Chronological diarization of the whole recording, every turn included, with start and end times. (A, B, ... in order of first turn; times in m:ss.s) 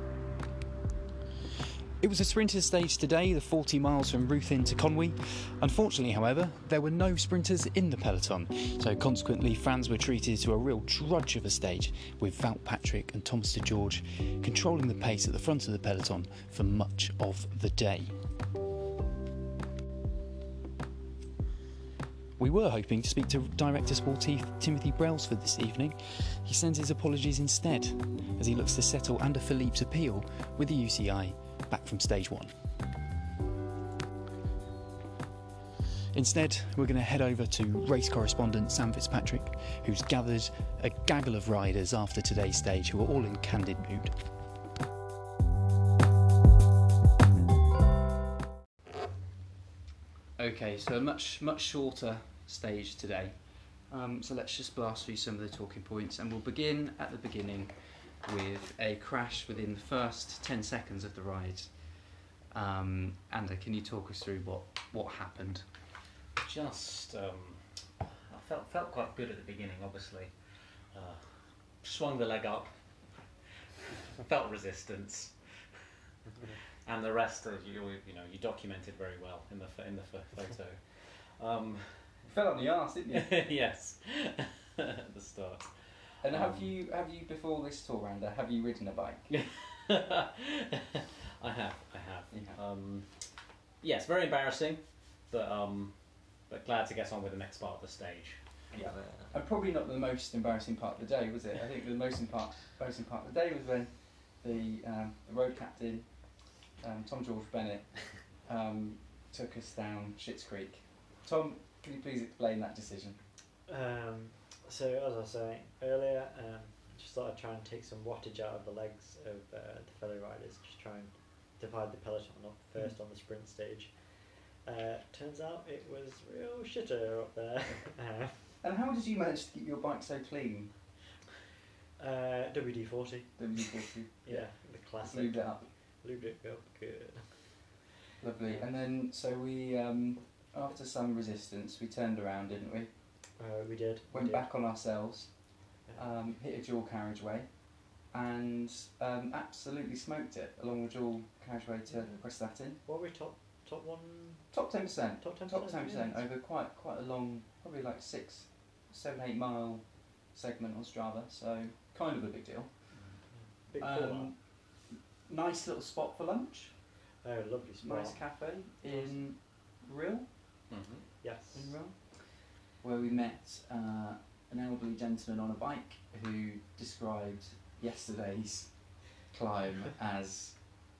0:02.0-0:18.2 A
0:22.4-0:32.5 A
0:36.1-0:44.1 A
0:50.4-0:53.3 A
0:53.9-0:57.7 A
0:58.2-1:01.7 A
1:02.5-1:05.6 A
1:06.4-1:10.4 B
1:10.9-1:12.7 B
1:14.1-1:15.3 B
1:16.8-1:22.2 B
1:22.3-1:23.3 A
1:23.1-1:26.7 B
1:26.2-1:29.4 A
1:29.4-1:33.2 B
1:32.3-1:32.6 A
1:33.8-1:35.9 B
1:36.5-1:38.4 B
1:38.7-1:46.0 A
1:46.8-1:47.9 A
1:48.4-1:53.2 A
1:53.7-2:03.9 C
2:04.6-2:08.5 C
2:08.6-2:10.7 A
2:12.0-2:17.5 C
2:13.4-2:15.6 A
2:18.2-2:22.9 A
2:23.4-2:24.5 C
2:24.1-2:25.3 A
2:25.9-2:27.5 A
2:28.1-2:32.8 A
2:31.9-2:32.2 C
2:32.8-2:34.5 C
2:34.5-2:42.7 A
2:35.2-2:36.2 C
2:43.3-2:44.3 C
2:43.8-2:44.3 A
2:45.3-2:46.7 A
2:47.2-2:48.2 C
2:47.8-2:50.2 A
2:48.9-2:49.2 C
2:50.7-2:51.0 B
2:51.2-2:51.8 C
2:51.5-2:52.0 A
2:52.8-2:58.7 A
2:59.2-3:00.6 A